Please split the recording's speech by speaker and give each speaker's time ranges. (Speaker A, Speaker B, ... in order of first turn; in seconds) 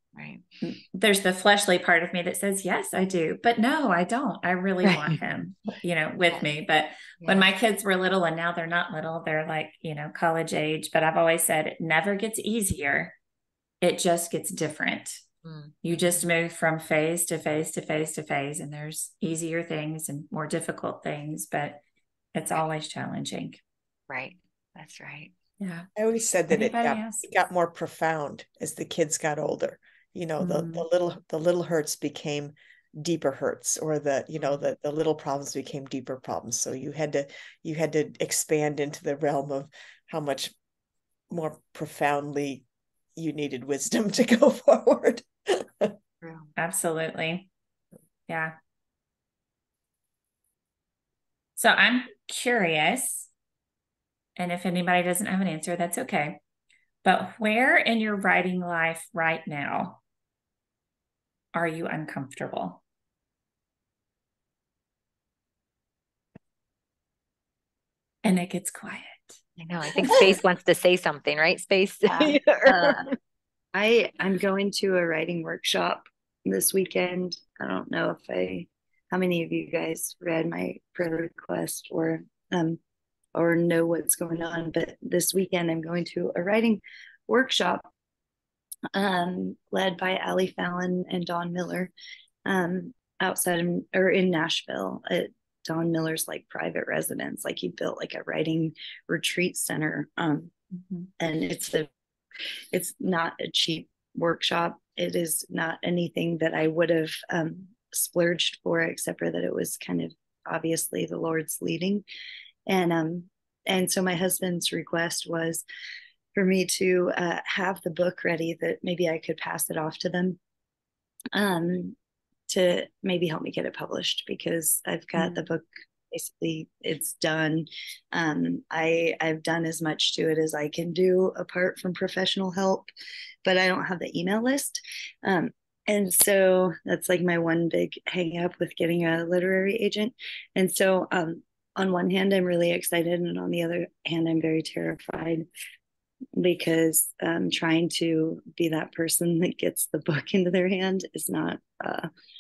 Speaker A: 0.1-0.4, 4.8-5.2, 7.2-7.5, 15.4-16.2, 24.1-25.3, 34.4-34.6, 46.2-46.5, 69.6-73.0
Speaker B: 0.6-13.2, 13.8-15.2, 15.8-21.8, 22.3-23.6, 25.6-25.9, 26.5-27.3, 30.4-30.9, 46.6-47.5, 48.3-48.5, 51.6-53.3, 54.4-56.4, 57.0-60.0, 61.5-62.8, 68.2-69.4, 125.2-125.5
Speaker C: 26.0-40.5, 41.3-42.6, 43.2-45.9
Speaker D: 72.1-73.0, 73.7-82.8, 83.3-87.9, 88.9-91.9, 92.5-100.5, 101.2-101.9, 102.7-112.0, 112.7-115.6, 116.4-120.4, 121.3-122.0, 122.5-132.9, 133.4-145.5, 146.4-152.1